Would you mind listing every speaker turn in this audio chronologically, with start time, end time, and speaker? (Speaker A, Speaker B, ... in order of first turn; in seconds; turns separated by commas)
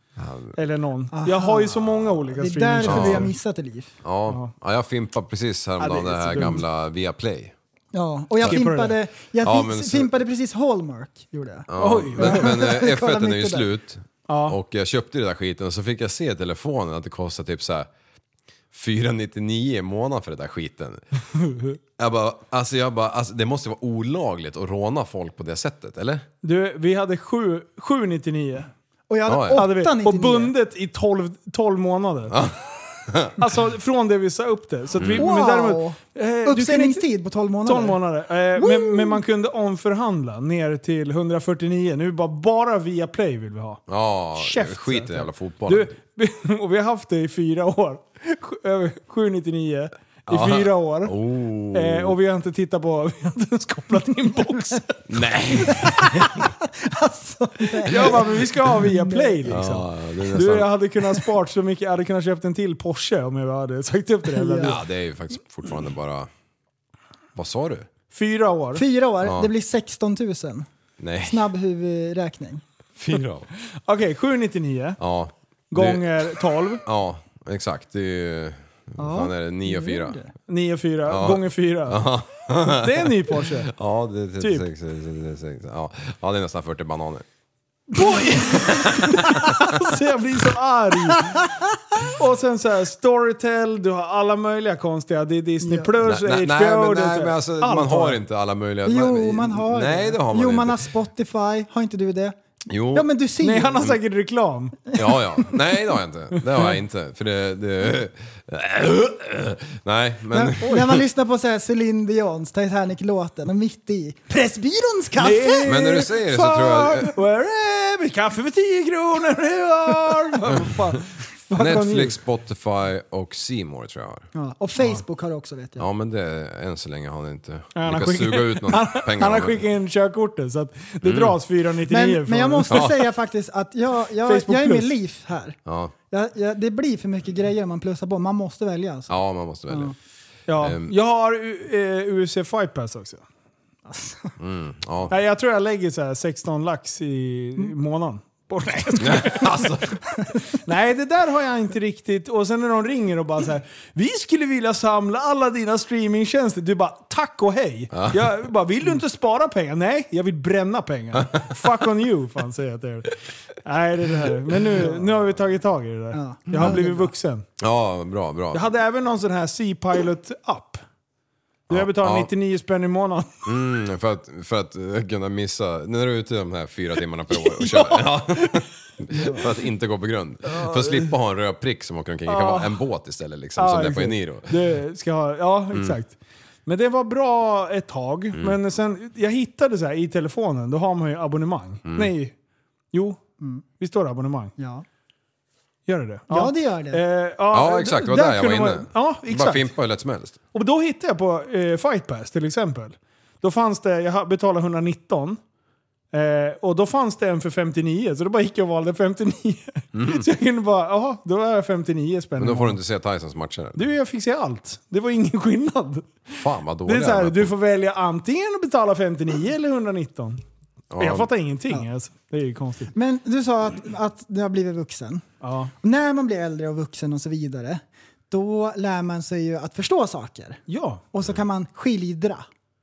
Speaker A: 0.2-0.6, Speaker B: 0.5-3.3, Speaker C: 1.1-1.8, Speaker C: 2.4-3.9, Speaker A: 2.9-3.3, Speaker A: 4.0-7.5, Speaker B: 5.8-6.6, Speaker C: 7.9-13.7, Speaker B: 8.5-9.0, Speaker A: 9.4-10.2, Speaker A: 11.7-17.9, Speaker B: 11.8-12.5, Speaker B: 14.3-14.6, Speaker A: 18.7-21.0, Speaker A: 22.0-26.3, Speaker B: 26.4-28.7, Speaker C: 29.1-30.5, Speaker A: 29.3-29.7, Speaker B: 29.6-32.4, Speaker A: 32.3-33.4, Speaker B: 33.4-37.1, Speaker A: 35.0-35.3, Speaker C: 35.2-38.0, Speaker B: 37.6-43.8, Speaker C: 38.5-39.2, Speaker A: 43.9-45.9, Speaker B: 44.4-51.2, Speaker A: 50.3-52.2, Speaker B: 51.7-55.1, Speaker A: 55.1-56.5, Speaker C: 55.7-59.5, Speaker B: 57.9-64.8, Speaker A: 57.9-58.3, Speaker A: 59.5-60.7, Speaker C: 64.3-64.8, Speaker A: 64.6-66.3, Speaker A: 67.4-67.9, Speaker B: 68.1-68.8, Speaker C: 68.7-70.7, Speaker A: 69.2-69.5, Speaker A: 71.0-71.5, Speaker C: 71.2-72.6, Speaker A: 73.0-73.5, Speaker B: 73.9-75.0, Speaker A: 75.0-80.2, Speaker B: 75.7-76.8, Speaker C: 79.0-80.3, Speaker B: 80.5-83.7, Speaker A: 81.0-87.3, Speaker B: 84.4-84.7, Speaker B: 88.0-91.5, Speaker A: 88.4-89.7, Speaker C: 91.1-91.7, Speaker B: 92.1-98.2, Speaker C: 95.6-96.0, Speaker A: 96.0-100.9, Speaker C: 98.8-102.4, Speaker A: 102.7-103.1, Speaker C: 102.9-103.8, Speaker B: 103.4-104.8, Speaker A: 105.0-111.0, Speaker C: 105.0-105.5, Speaker C: 110.3-115.7, Speaker B: 110.7-111.0, Speaker B: 115.2-122.2, Speaker A: 115.7-117.2, Speaker A: 121.5-124.3, Speaker C: 124.3-125.9, Speaker A: 125.8-129.7, Speaker B: 127.8-132.9, Speaker A: 131.0-131.4, Speaker C: 131.9-135.6, Speaker A: 132.7-132.9, Speaker B: 134.2-134.9, Speaker A: 135.7-135.9, Speaker C: 136.1-139.1, Speaker A: 139.1-139.9, Speaker B: 140.5-143.2, Speaker A: 140.6-140.9, Speaker C: 143.9-144.3, Speaker A: 144.4-145.1, Speaker B: 145.1-149.6, Speaker A: 149.0-150.0, Speaker B: 150.5-167.4, Speaker A: 157.9-158.2, Speaker A: 161.2-161.5, Speaker C: 166.1-167.1, Speaker A: 167.6-168.7, Speaker B: 168.5-170.8, Speaker B: 171.7-173.5, Speaker A: 171.7-172.3, Speaker A: 173.4-184.6, Speaker B: 177.3-179.4, Speaker B: 180.5-181.1, Speaker B: 182.3-182.8, Speaker B: 183.6-186.1, Speaker B: 186.7-192.3, Speaker A: 191.9-192.1, Speaker B: 192.9-193.2, Speaker B: 193.8-194.5, Speaker C: 194.6-194.8, Speaker B: 195.9-199.7, Speaker C: 196.3-197.0, Speaker A: 197.5-200.4, Speaker B: 200.5-205.4, Speaker B: 206.1-212.8, Speaker A: 209.9-210.3, Speaker A: 212.4-213.9, Speaker B: 213.8-220.4, Speaker A: 216.3-217.5, Speaker A: 220.9-221.3, Speaker B: 221.0-222.9, Speaker C: 222.9-225.2, Speaker B: 225.4-225.7, Speaker C: 225.8-230.6, Speaker B: 230.7-231.0, Speaker C: 231.1-232.4